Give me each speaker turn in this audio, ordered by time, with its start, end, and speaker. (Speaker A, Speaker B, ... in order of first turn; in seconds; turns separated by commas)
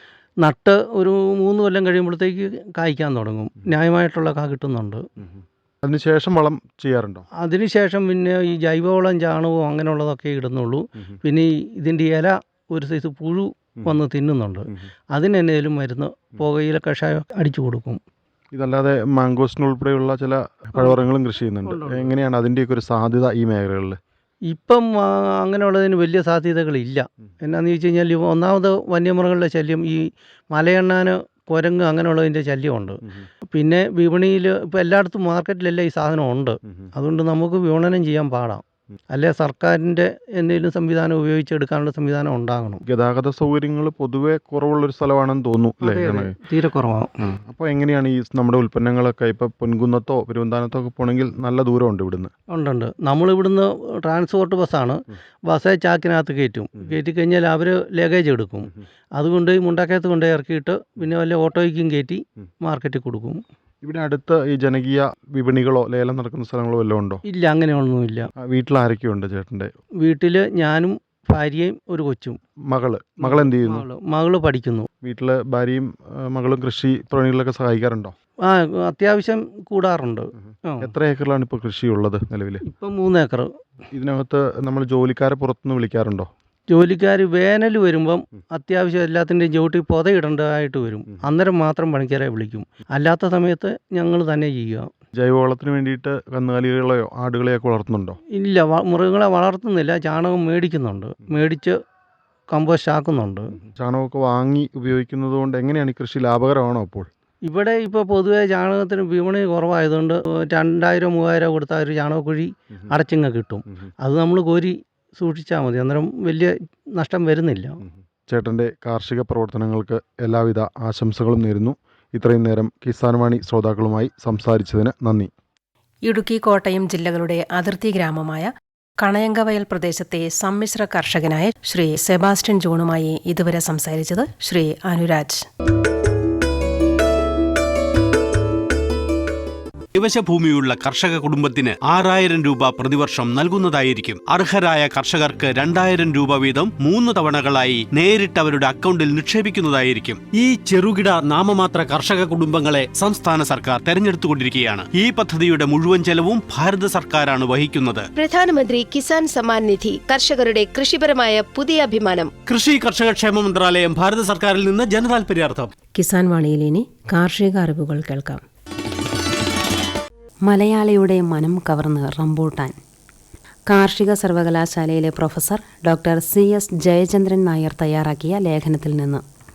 Speaker A: 0.4-5.0, Speaker B: 5.2-7.2, Speaker A: 7.4-18.0, Speaker B: 18.5-24.0, Speaker A: 21.7-22.1, Speaker A: 24.5-33.0, Speaker A: 33.5-42.8, Speaker B: 42.9-46.4, Speaker A: 45.8-47.1, Speaker B: 47.2-52.3, Speaker A: 52.5-63.4, Speaker B: 63.8-67.2, Speaker A: 67.3-68.3, Speaker B: 68.4-69.7, Speaker A: 70.0-72.4, Speaker B: 72.7-73.9, Speaker A: 73.2-74.9, Speaker B: 75.0-78.2, Speaker A: 78.4-80.9, Speaker B: 80.8-82.6, Speaker A: 82.7-83.5, Speaker B: 83.9-86.3, Speaker A: 86.7-94.9, Speaker B: 95.2-98.2, Speaker A: 98.3-101.8, Speaker A: 102.5-103.5, Speaker B: 103.8-107.1, Speaker A: 107.5-117.8, Speaker B: 118.3-125.3, Speaker C: 126.0-135.5, Speaker D: 139.9-158.1, Speaker E: 158.2-162.3, Speaker D: 162.5-165.7, Speaker C: 166.0-168.4, Speaker F: 170.5-172.8, Speaker F: 173.7-179.2